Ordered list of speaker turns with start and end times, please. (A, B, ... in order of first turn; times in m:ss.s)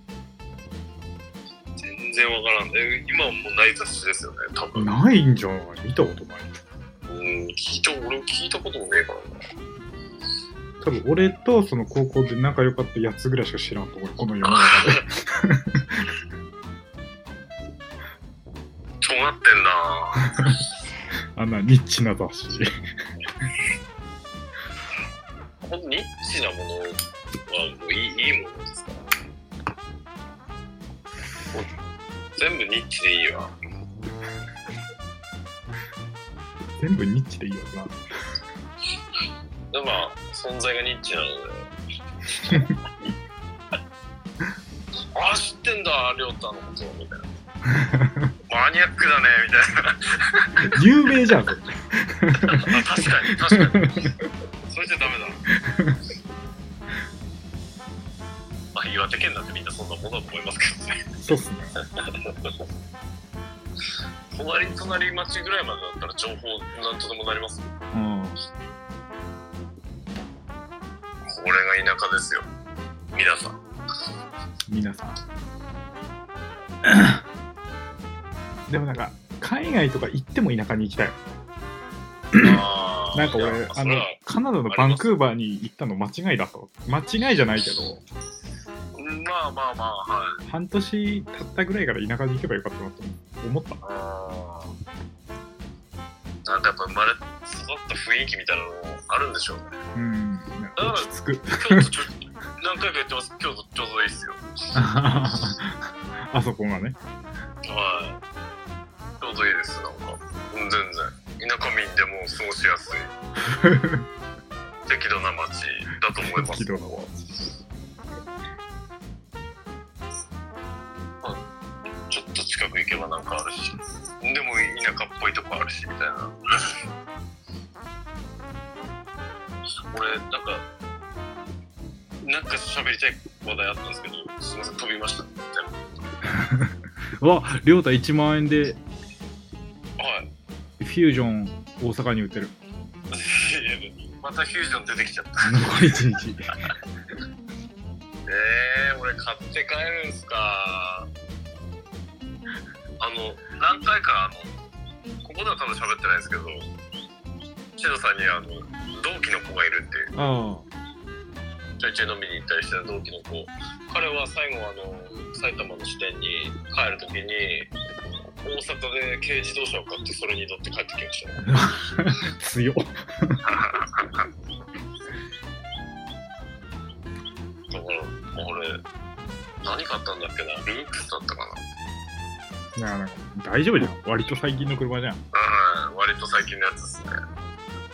0:01.8-0:04.9 A
0:04.8-0:06.6 B
0:07.1-0:09.4 A
0:10.8-0:16.1 B
0:14.4-0:15.0 A
0:19.0-0:20.5 A
0:21.4-0:22.7 B
0:25.6-0:29.0 A
0:32.4-0:33.5 A
0:36.8-0:38.0 B
0:39.7-0:41.7 A
0:42.3-0:42.7 A
0:45.2-0:47.3 A
0:47.7-0:48.3 B
0:48.5-0:50.8 A
0:50.6-0:52.8 B
0:52.4-0:54.0 A
0:53.5-0:54.2 B
0:54.7-0:55.4 A
0:55.6-0:56.0 B
0:58.8-1:01.0 A
1:01.2-1:01.7 B
1:02.0-1:02.6 A
1:04.3-1:07.7 A
1:07.9-1:08.4 B
1:11.2-1:12.5 A
1:13.1-1:13.6 A
1:14.7-1:15.2 B
1:16.8-1:17.2 B
1:18.7-1:21.2 B
1:22.3-1:22.6 B
1:22.4-1:25.2 A
1:23.2-1:28.0 B
1:29.0-1:30.4 A
1:30.5-1:33.8 B
1:33.8-1:34.7 A
1:36.4-1:39.7 A
1:40.0-1:41.9 B
1:40.8-1:44.4 A
1:44.8-1:47.0 B
1:47.6-1:48.2 A
1:49.2-1:53.1 A
1:53.5-1:54.1 B
1:54.9-1:57.1 A
1:56.2-1:57.0 B
2:02.1-2:06.3 A
2:09.9-2:10.6 A
2:12.2-2:15.8 A
2:16.2-2:18.8 B
2:20.0-2:20.3 A
2:20.8-2:22.6 B
2:23.1-2:25.9 A
2:25.4-2:26.6 B
2:28.3-2:31.1 A
2:33.0-2:34.5 A
2:35.2-2:36.6 A
2:37.8-2:40.1 A
2:40.1-2:40.7 B
2:41.8-2:47.7 A
2:48.4-2:51.5 A
2:51.5-2:53.4 B
2:53.4-2:54.3 A
2:57.7-2:58.8 A
2:59.6-3:01.6 A
3:02.8-3:05.2 B
3:05.3-3:07.2 A